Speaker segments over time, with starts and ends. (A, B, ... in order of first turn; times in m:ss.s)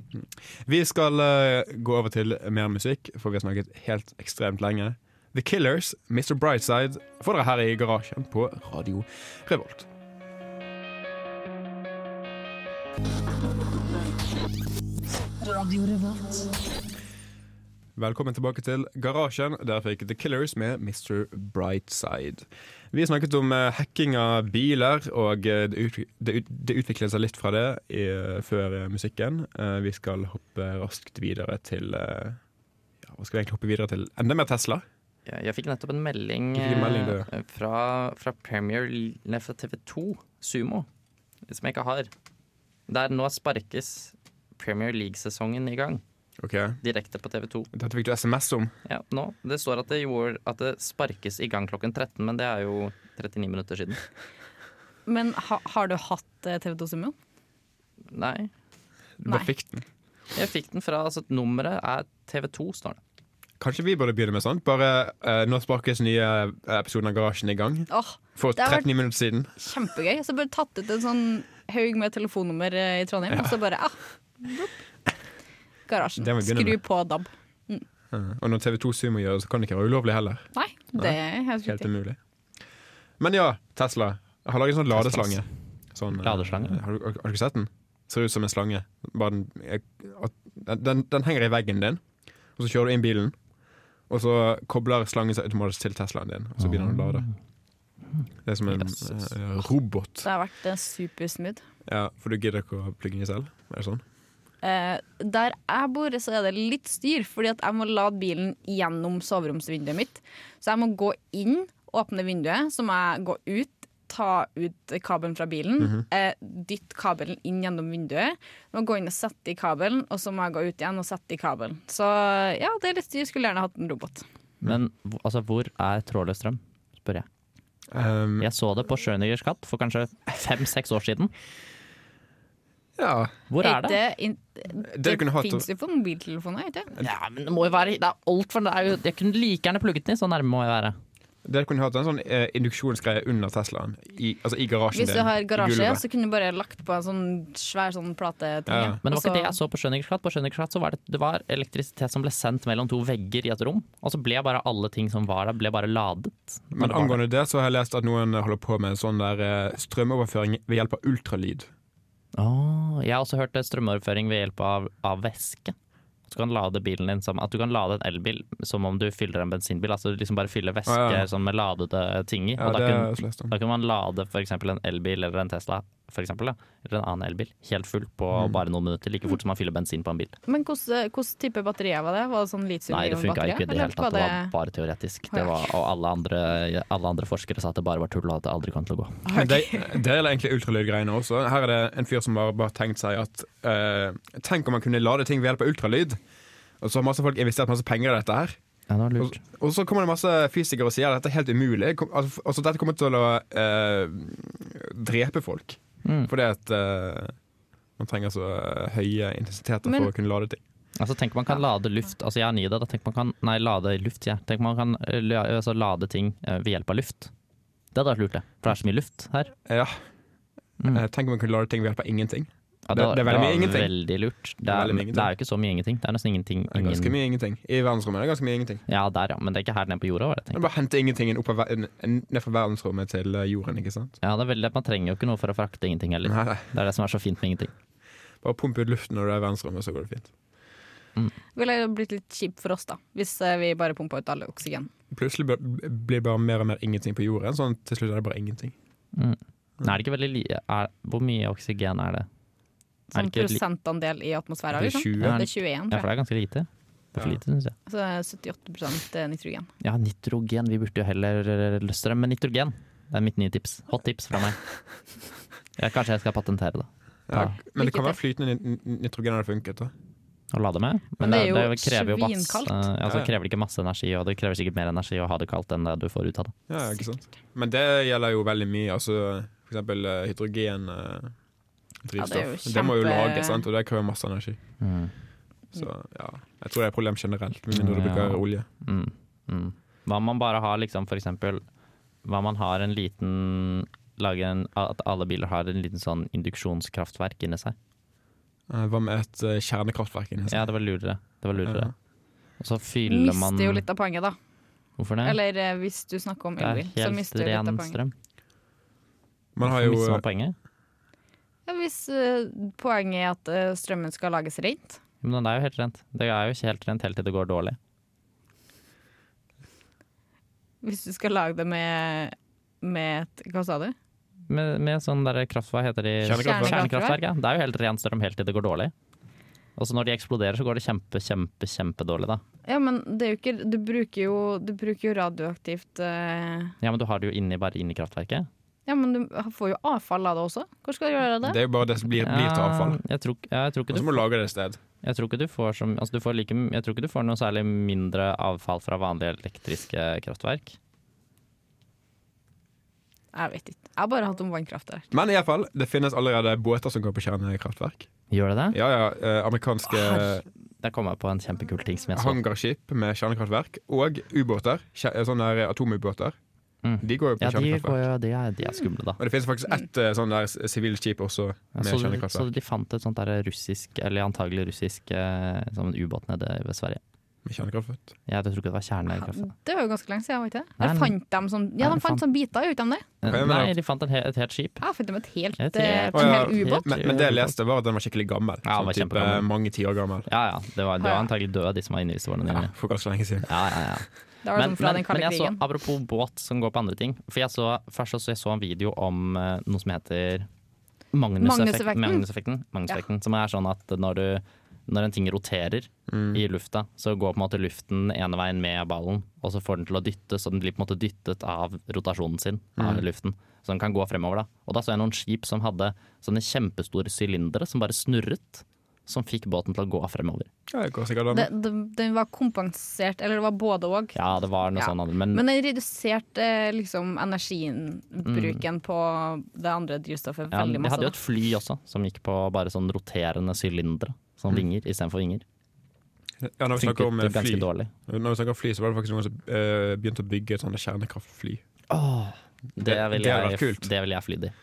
0:00.1-0:09.9 A
0:15.4-0:16.5 B
0:18.0-0:32.4 A
0:33.0-0:34.8 A
0:35.3-0:40.9 C
0:36.5-0:37.3 A
0:41.5-0:42.1 C
0:42.9-0:46.0 C
0:46.4-0:46.8 A
0:46.8-0:47.7 C
0:47.7-0:48.7 A
0:48.9-0:54.0 C
0:55.1-0:57.2 B
0:58.1-0:58.5 C
0:59.2-0:59.8 A
1:00.4-1:03.0 C
1:03.6-1:09.5 A
1:07.9-1:08.9 B
1:09.6-1:14.7 B
1:13.3-1:13.6 A
1:15.9-1:17.9 B
1:16.2-1:16.8 A
1:18.1-1:22.2 A
1:20.6-1:21.9 B
1:23.2-1:32.0 A
1:25.0-1:25.4 C
1:26.2-1:26.8 C
1:32.6-1:33.4 A
1:34.1-1:37.3 A
1:36.6-1:37.3 C
1:38.4-1:40.3 A
1:38.8-1:39.1 C
1:40.2-1:41.6 B
1:41.9-1:44.0 A
1:44.6-2:04.2 B
2:04.6-2:07.3 C
2:07.9-2:08.5 A
2:08.4-2:11.3 C
2:13.0-2:13.3 A
2:13.5-2:14.0 C
2:13.6-2:16.9 B
2:14.8-2:15.7 A
2:17.0-2:21.0 C
2:21.4-2:26.0 A
2:24.9-2:29.6 B
2:28.7-2:29.0 A
2:29.0-2:37.2 C
2:36.7-2:41.7 A
2:42.4-2:45.8 C
2:46.3-3:00.4 C
2:50.9-2:51.3 A
2:52.6-2:53.5 A
3:00.5-3:04.5 B
3:02.9-3:09.3 C
3:05.3-3:05.7 B
3:09.3-3:10.0 B
3:09.3-3:16.2 A
3:16.8-3:18.6 A
3:18.9-3:19.4 C
3:19.2-3:27.4 A
3:26.0-3:26.3 C
3:28.0-3:30.6 A
3:29.8-3:30.1 B
3:31.0-3:37.3 C
3:37.9-3:39.5 C
3:39.7-3:40.0 A
3:40.9-3:43.9 A
3:42.9-3:47.2 C
3:44.7-3:45.3 A
3:46.7-3:48.8 A
3:48.9-3:50.6 C
3:50.5-3:54.2 A
3:54.2-3:57.7 C
3:56.2-3:56.6 A
3:58.4-4:00.3 A
4:01.6-4:04.9 B
4:05.1-4:08.7 A
4:09.1-4:12.3 C
4:13.1-4:16.1 B
4:13.1-4:13.6 C
4:14.7-4:15.4 A
4:15.2-4:17.8 C
4:17.9-4:19.7 B
4:19.8-4:24.6 C
4:25.8-4:27.6 C
4:27.3-4:29.9 A
4:27.7-4:28.2 B
4:30.5-4:36.5 C
4:31.2-4:32.9 B
4:36.7-4:41.3 A
4:42.0-4:44.6 A
4:42.2-4:43.6 B
4:44.8-4:45.1 C
4:45.8-4:48.7 A
4:47.7-4:51.6 C
4:52.2-4:57.8 C
4:58.7-5:00.7 A
5:00.5-5:01.9 C
5:01.6-5:01.9 A
5:02.6-5:03.8 C
5:03.1-5:04.4 B
5:05.0-5:05.4 C
5:05.2-5:08.0 B
5:06.6-5:08.1 C
5:09.6-5:10.2 A
5:09.6-5:10.6 C
5:11.7-5:15.0 B
5:15.2-5:17.8 C
5:20.8-5:24.0 B
5:24.5-5:28.9 C
5:26.2-5:26.8 A
5:26.3-5:27.2 B
5:29.8-5:32.4 C
5:32.7-5:36.8 B
5:36.8-5:38.5 C
5:38.9-5:41.6 B
5:41.4-5:43.0 A
5:42.1-5:44.2 C
5:43.9-5:44.8 A
5:45.0-5:50.8 C
5:53.3-5:55.1 B
5:55.1-5:58.1 A
5:58.3-5:58.8 C
5:58.7-6:00.4 A
6:00.0-6:02.4 C
6:02.1-6:06.4 A
6:06.8-6:09.2 C
6:07.0-6:08.0 A
6:09.2-6:12.5 A
6:11.8-6:17.0 C
6:17.4-6:18.1 A
6:18.3-6:19.5 C
6:19.2-6:23.1 B
6:20.8-6:21.2 C
6:21.8-6:22.2 C
6:23.2-6:24.8 C
6:23.3-6:23.7 A
6:24.8-6:26.9 B
6:25.6-6:27.6 C
6:26.0-6:30.3 A
6:28.6-6:29.5 C
6:30.3-6:32.7 C
6:31.0-6:31.3 B
6:32.5-6:33.5 A
6:33.4-6:40.5 C
6:34.4-6:35.6 B
6:41.1-7:00.5 C
6:41.4-6:42.2 B
6:46.1-6:46.4 A
6:52.8-6:53.0 A
7:00.7-7:01.5 A
7:01.3-7:04.2 B
7:04.2-7:05.4 C
7:04.8-7:11.2 B
7:08.2-7:08.6 C
7:10.5-7:15.4 C
7:16.4-7:21.6 A
7:16.8-7:17.9 C
7:21.9-7:24.5 C
7:22.8-7:23.9 A